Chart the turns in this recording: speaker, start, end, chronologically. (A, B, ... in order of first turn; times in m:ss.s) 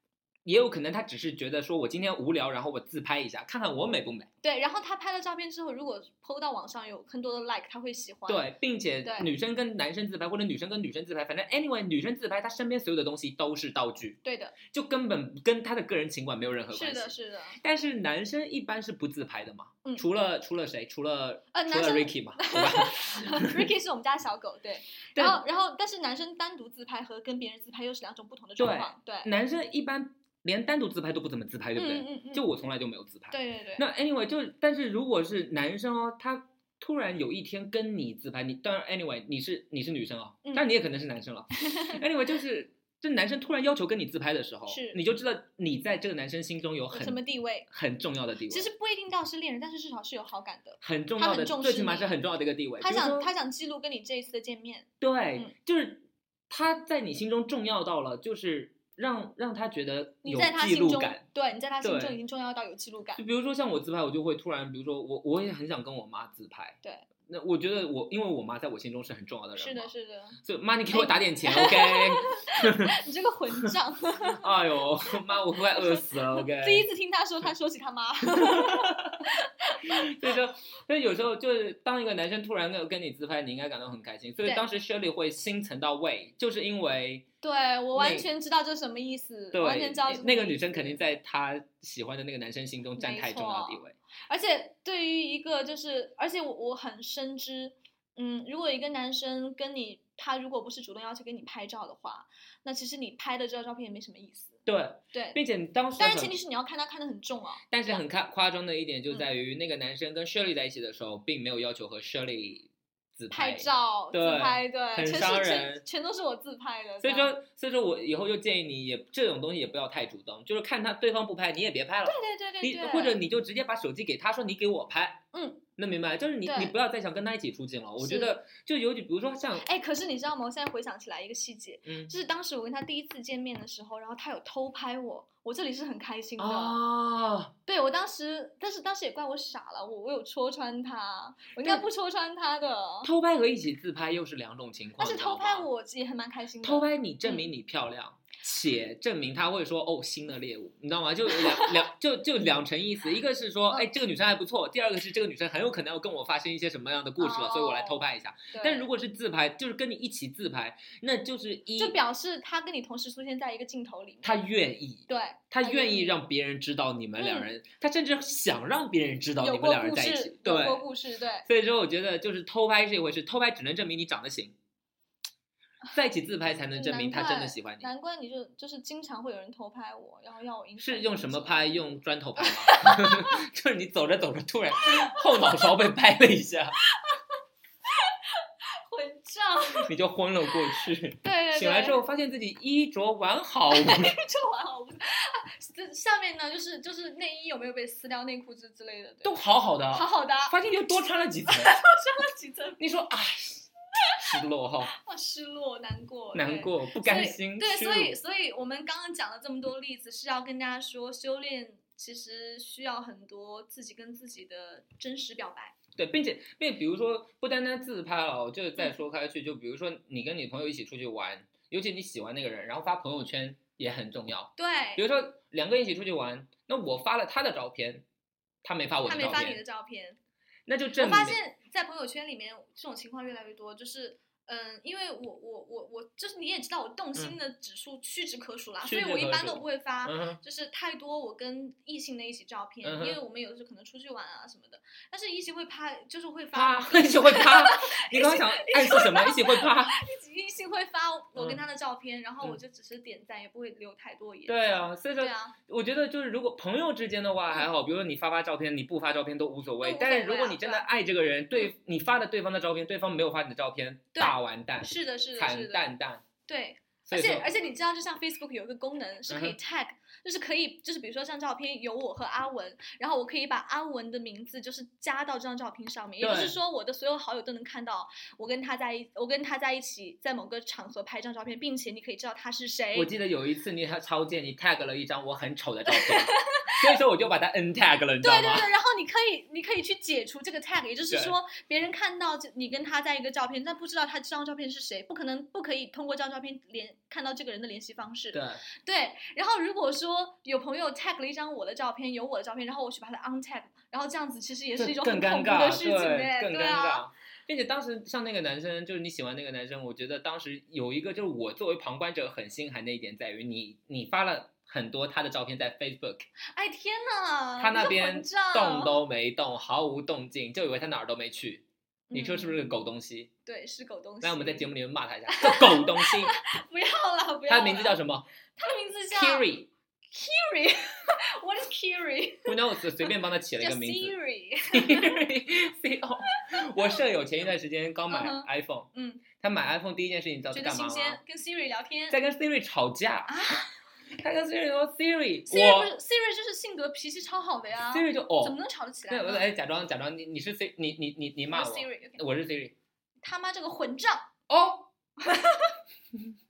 0:00.4-0:04.3 A
0:04.4-0:08.5 B
0:08.3-0:23.7 A
0:09.0-0:09.3 B
0:14.2-0:14.6 B
0:16.7-0:17.6 B
0:21.5-0:29.3 B
0:25.1-0:25.4 A
0:28.6-0:48.7 A
0:31.7-0:32.4 B
0:33.3-0:33.8 B
0:41.7-0:42.0 B
0:44.7-0:45.0 B
0:46.9-0:47.7 B
0:48.5-0:52.1 B
0:50.8-0:53.3 A
0:52.8-0:55.5 B
0:55.0-1:01.2 A
1:00.2-1:03.2 B
1:01.8-1:02.2 A
1:03.2-1:09.9 A
1:06.8-1:07.1 B
1:09.6-1:10.4 B
1:10.4-1:12.9 A
1:10.9-1:14.5 B
1:14.4-1:16.8 A
1:15.7-1:20.1 B
1:18.4-1:19.2 A
1:19.9-1:27.3 A
1:27.4-1:31.0 B
1:27.9-1:28.3 A
1:29.5-1:34.0 A
1:33.0-1:44.6 B
1:44.6-1:46.3 A
1:45.1-1:45.4 B
1:46.0-1:47.6 B
1:47.7-1:55.8 A
1:53.3-1:57.3 B
1:57.0-2:05.2 A
2:02.0-2:03.2 B
2:05.3-2:05.6 B
2:05.8-2:09.7 A
2:06.4-2:06.7 B
2:08.0-2:08.4 B
2:09.6-2:16.8 B
2:11.8-2:12.1 A
2:16.4-2:17.5 A
2:17.6-2:23.1 B
2:21.6-2:21.8 A
2:23.0-2:25.7 A
2:25.0-2:27.4 B
2:26.6-2:42.0 A
2:31.4-2:31.7 B
2:37.2-2:38.9 B
2:41.8-2:44.4 B
2:44.2-2:50.9 A
2:45.1-2:46.1 B
2:47.2-2:47.5 B
2:49.4-2:51.4 B
2:51.4-2:54.5 A
2:55.9-2:57.9 A
2:56.7-3:01.7 B
3:00.8-3:06.8 A
3:02.4-3:03.4 B
3:07.9-3:09.9 B
3:09.8-3:14.1 A
3:10.7-3:12.0 B
3:13.7-3:19.3 B
3:19.2-3:21.7 A
3:19.9-3:20.6 B
3:21.5-3:22.8 B
3:22.8-3:24.9 A
3:25.0-3:35.7 B
3:26.3-3:28.2 A
3:36.0-3:48.0 A
3:44.6-3:45.0 B
3:48.6-3:49.6 A
3:49.0-3:50.2 B
3:50.7-3:51.4 A
3:51.0-4:15.6 B
3:58.8-4:00.4 A
4:02.8-4:03.2 A
4:06.5-4:10.0 A
4:11.4-4:11.6 A
4:14.5-4:26.2 A
4:19.8-4:20.9 B
4:24.1-4:25.9 B
4:26.5-4:43.1 B
4:27.0-4:27.5 A
4:29.3-4:29.6 A
4:36.2-4:36.6 A
4:42.9-4:48.7 A
4:45.9-4:46.8 B
4:48.2-5:07.0 B
4:58.3-4:58.6 A
5:04.8-5:16.3 A
5:16.5-5:19.0 B
5:17.6-5:23.3 A
5:22.1-5:22.7 B
5:23.4-5:24.7 B
5:24.2-5:26.3 A
5:25.3-5:28.0 B
5:27.5-5:28.2 A
5:28.6-5:29.5 B
5:29.1-5:29.7 A
5:30.1-5:35.2 B
5:32.4-5:34.2 A
5:34.7-5:41.2 A
5:38.1-5:39.2 B
5:40.5-5:42.2 B
5:42.1-5:43.6 A
5:43.3-5:43.7 B
5:44.2-5:45.9 A
5:45.5-5:49.5 B
5:47.9-5:48.6 A
5:49.1-5:52.7 A
5:51.5-5:52.2 B
5:53.2-5:54.3 B
5:54.5-5:54.9 A
5:55.2-5:55.8 B